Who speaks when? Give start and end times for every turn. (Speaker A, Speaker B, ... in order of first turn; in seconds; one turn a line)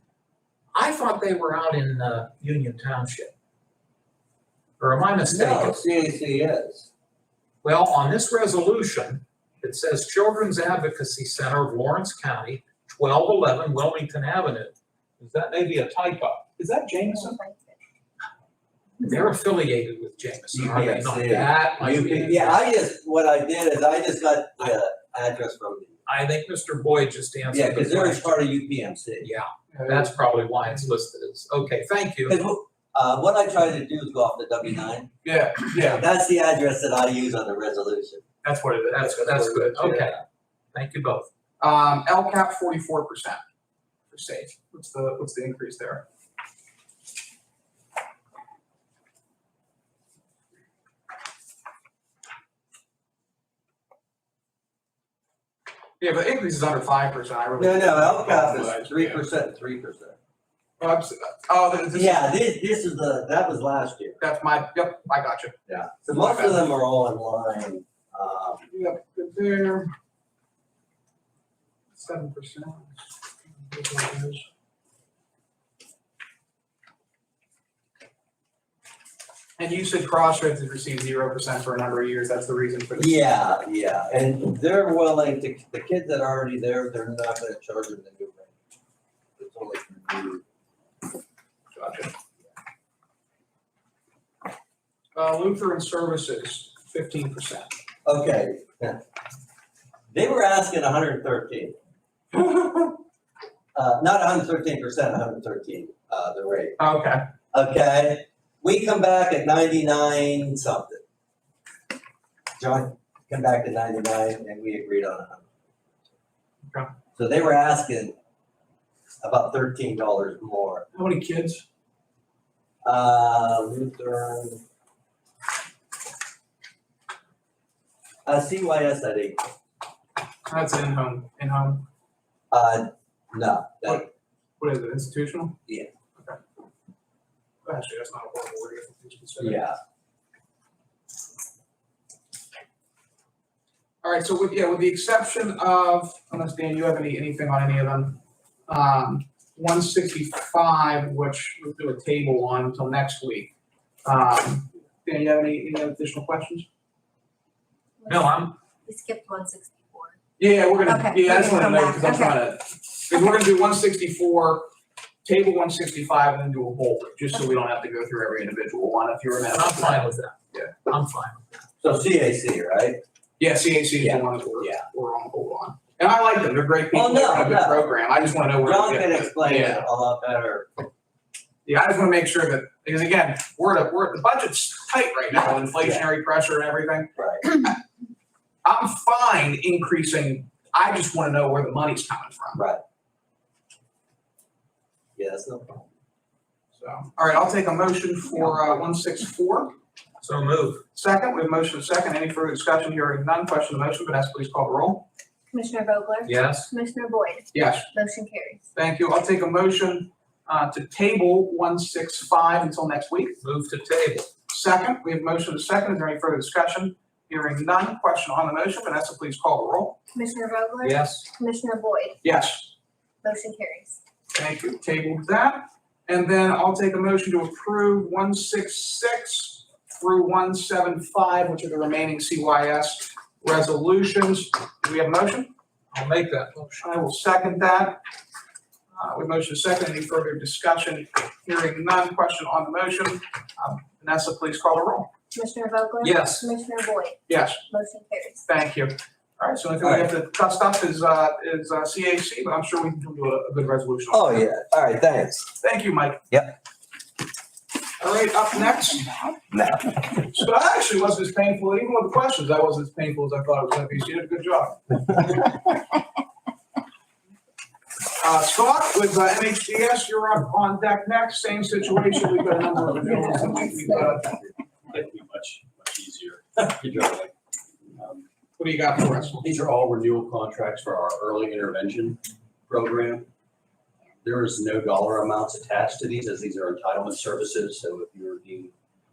Speaker A: 0.7-3.3
Speaker A: 4.8-5.8
Speaker B: 5.3-6.9
Speaker A: 7.6-16.4
Speaker C: 16.6-17.4
Speaker D: 17.1-17.8
Speaker A: 19.0-22.6
Speaker B: 20.5-26.0
Speaker A: 26.1-28.4
Speaker B: 27.5-29.3
Speaker A: 29.2-32.4
Speaker C: 29.7-30.9
Speaker B: 32.3-35.1
Speaker C: 35.2-36.0
Speaker B: 35.6-38.2
Speaker C: 38.4-39.8
Speaker A: 39.0-40.2
Speaker B: 39.8-40.2
Speaker A: 40.7-41.3
Speaker C: 41.6-43.4
Speaker C: 44.1-46.0
Speaker C: 56.0-59.2
Speaker B: 57.6-60.2
Speaker C: 60.8-62.3
Speaker B: 61.9-64.2
Speaker C: 64.2-65.5
Speaker B: 65.7-68.7
Speaker C: 66.1-66.6
Speaker C: 68.7-69.9
Speaker C: 71.9-73.0
Speaker C: 73.6-74.5
Speaker C: 79.6-83.2
Speaker B: 83.0-88.6
Speaker B: 89.4-90.4
Speaker C: 91.7-92.1
Speaker C: 95.1-97.7
Speaker B: 98.0-99.0
Speaker B: 100.1-101.8
Speaker C: 102.3-102.9
Speaker B: 103.7-106.8
Speaker C: 106.8-107.2
Speaker B: 107.5-111.0
Speaker B: 112.6-115.5
Speaker B: 117.2-118.2
Speaker B: 119.2-120.8
Speaker C: 120.9-121.6
Speaker B: 122.8-124.6
Speaker B: 128.2-129.4
Speaker C: 130.4-131.8
Speaker B: 132.5-134.1
Speaker C: 134.6-135.6
Speaker C: 137.6-139.6
Speaker B: 139.4-139.8
Speaker C: 144.0-153.5
Speaker C: 154.0-156.7
Speaker D: 158.0-160.2
Speaker A: 158.1-158.6
Speaker C: 160.4-164.7
Speaker D: 160.8-162.4
Speaker C: 165.2-170.7
Speaker A: 169.5-171.4
Speaker B: 171.8-173.0
Speaker C: 173.4-179.8
Speaker B: 174.0-174.8
Speaker B: 176.9-177.9
Speaker B: 178.6-180.8
Speaker C: 181.6-187.8
Speaker B: 185.3-186.1
Speaker B: 187.2-187.4
Speaker C: 188.6-192.6
Speaker B: 192.5-192.8
Speaker B: 195.2-195.8
Speaker C: 196.8-199.7
Speaker A: 200.2-200.8
Speaker C: 200.9-205.1
Speaker D: 205.5-208.6
Speaker A: 206.2-206.7
Speaker C: 207.5-207.9
Speaker C: 208.7-213.4
Speaker A: 213.4-214.3
Speaker C: 214.5-220.0
Speaker D: 220.1-222.2
Speaker A: 220.8-221.2
Speaker C: 222.2-222.7
Speaker D: 223.2-224.0
Speaker C: 224.3-235.5
Speaker A: 235.9-236.8
Speaker C: 236.8-238.0
Speaker C: 238.9-245.1
Speaker D: 245.3-248.4
Speaker A: 246.0-246.5
Speaker C: 247.3-247.6
Speaker C: 248.5-254.3
Speaker B: 249.8-250.1
Speaker B: 254.1-255.5
Speaker C: 255.6-256.2
Speaker B: 256.3-256.6
Speaker C: 258.0-259.1
Speaker B: 259.5-260.0
Speaker C: 260.1-264.9
Speaker C: 268.2-274.4
Speaker E: 274.9-277.3
Speaker E: 277.9-278.2
Speaker C: 278.6-279.5
Speaker E: 279.4-283.3
Speaker E: 284.2-288.7